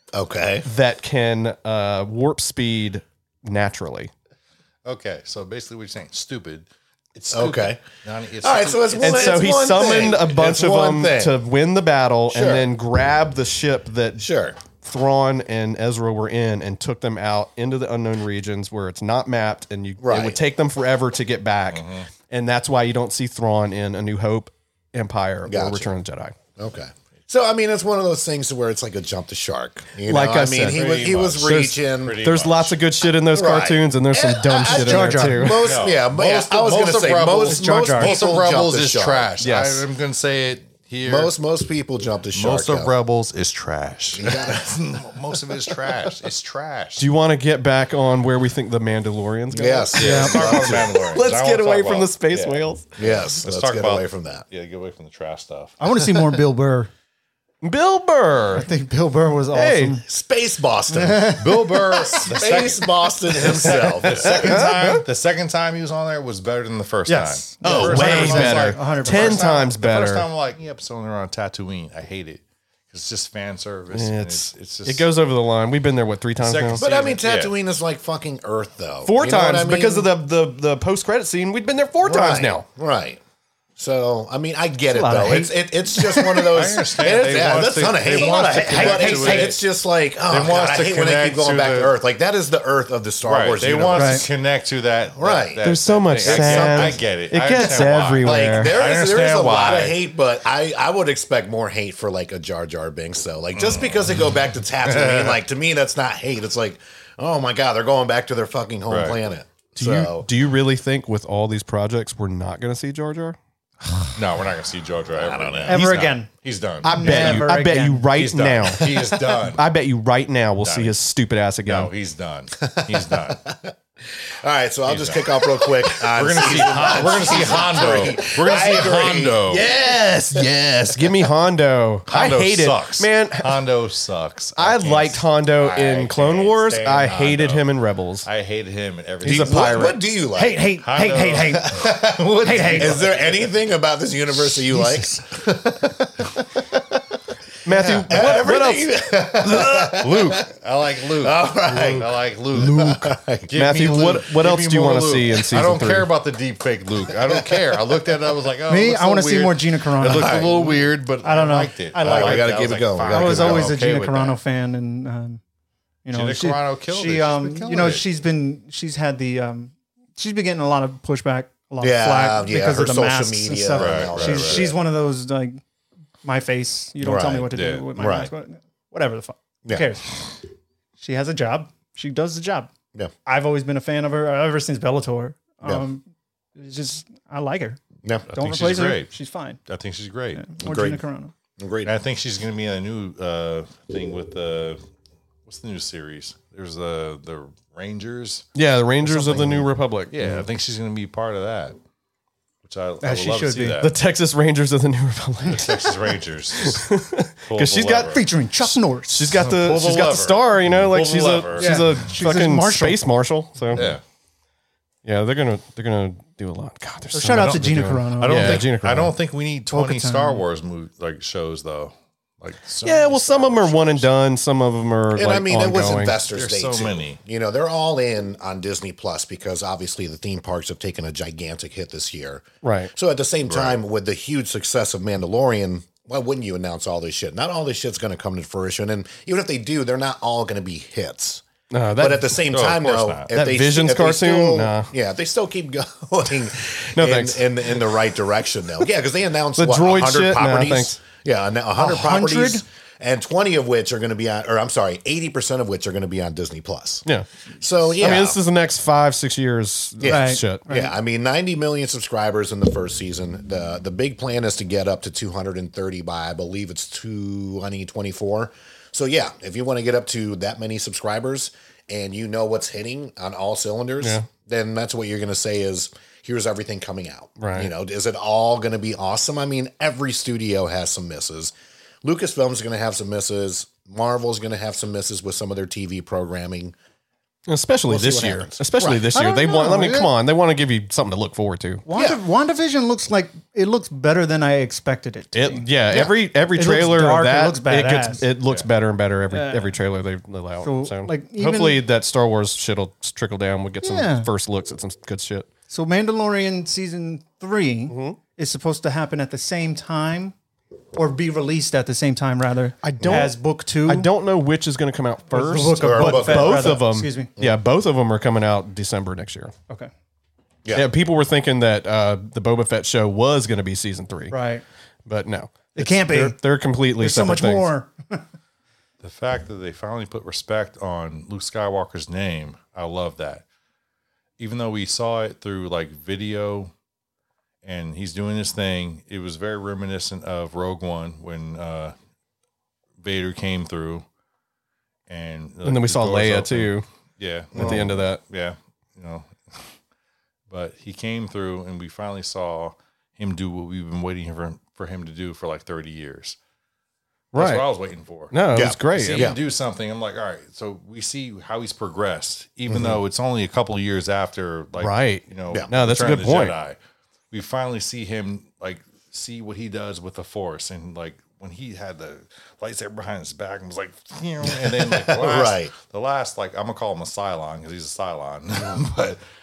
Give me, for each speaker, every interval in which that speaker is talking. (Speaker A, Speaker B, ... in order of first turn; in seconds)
Speaker A: 0.1-0.7, 7.3-7.8, 8.4-11.4, 12.3-12.7, 14.2-14.6, 20.0-20.4, 25.5-25.9, 26.6-32.3, 33.2-39.3, 41.0-42.9, 44.1-44.7, 49.5-51.0, 53.0-54.4, 60.0-64.6, 76.8-80.1, 82.0-83.2, 83.8-94.3, 95.2-95.6, 96.2-97.0, 98.2-110.3, 115.1-115.9, 118.7-119.4, 122.6-131.1, 135.7-136.1, 139.2-140.6, 142.7-147.0, 147.8-150.5, 151.2-153.5, 157.2-158.0, 160.0-160.7, 162.0-163.7, 171.8-174.8, 177.0-178.3, 179.7-179.9, 188.0-188.3, 190.6-191.0, 191.6-191.9, 225.1-241.4, 242.0-257.0, 257.6-258.4, 260.0-286.7, 287.9-289.0, 291.9-292.2, 315.8-316.8, 347.5-347.9, 358.5-359.4, 362.7-363.0, 374.5-375.7
Speaker B: 0.6-4.1, 9.0-26.3, 30.0-30.8, 31.4-35.8, 39.4-39.9, 47.0-50.0, 50.9-52.8, 57.6-58.7, 59.5-60.0, 64.3-65.0, 67.6-70.3, 73.9-76.8, 79.0-82.6, 95.6-98.8, 109.8-113.4, 116.8-118.9, 119.5-121.9, 130.9-133.6, 134.6-138.3, 139.2-140.0, 147.6-149.9, 153.5-156.1, 198.5-200.4, 203.8-205.9, 206.6-213.9, 215.0-219.1, 222.8-226.2, 232.6-232.9, 241.7-242.4, 243.3-244.9, 246.9-247.7, 249.6-251.0, 258.0-260.6, 274.0-274.3, 277.4-277.7, 287.5-291.8, 295.3-305.5, 307.9-308.2, 312.8-319.5, 320.7-324.4, 325.1-327.7, 345.6-346.9, 347.6-348.2, 357.3-357.6, 358.3-359.3, 364.8-366.5
Speaker C: 4.8-9.4, 21.7-22.1, 30.7-32.7, 35.6-41.3, 42.3-47.1, 49.9-55.8, 61.4-75.1, 76.4-77.5, 86.5-89.6, 90.3-91.9, 93.2-100.0, 103.5-104.0, 104.8-105.4, 108.9-109.2, 114.0-117.5, 118.2-119.6, 120.6-120.9, 121.7-123.4, 124.8-129.7, 132.1-137.7, 138.2-139.9, 140.8-143.5, 149.5-164.4, 166.1-168.0, 173.7-174.7, 177.5-177.9, 188.3-189.1, 189.7-190.4, 191.8-194.8, 195.5-198.5, 200.1-201.8, 202.6-203.9, 205.5-206.9, 207.5-208.2, 209.3-212.0, 213.7-214.0, 217.3-224.1, 226.3-227.2, 233.4-233.8, 242.5-243.3, 329.0-333.4, 334.4-336.7, 337.6-341.9, 343.0-344.0, 345.1-349.7, 350.5-356.4, 357.3-358.3, 358.9-366.8, 367.3-379.2
Speaker D: 34.7-35.6, 37.4-38.1, 50.0-50.5, 55.8-56.9, 58.5-60.0, 60.9-62.1, 67.1-69.7, 84.9-86.5, 88.1-89.5, 93.9-94.2, 115.7-116.3, 116.8-118.1, 140.3-141.8, 142.4-143.0, 158.7-165.4, 166.0-175.6, 176.2-180.3, 181.0-182.7, 183.2-187.8, 188.3-189.6, 190.3-191.3, 199.3-199.6, 203.0-203.8, 208.1-209.4, 211.6-213.1, 217.1-218.7, 219.7-220.4, 251.8-252.6, 260.1-260.9, 288.8-290.1, 291.9-298.3, 299.3-299.8, 300.6-301.8, 303.8-304.3, 305.7-310.3, 310.9-314.1, 315.3-317.3, 324.3-324.6, 325.7-326.4, 327.0-328.2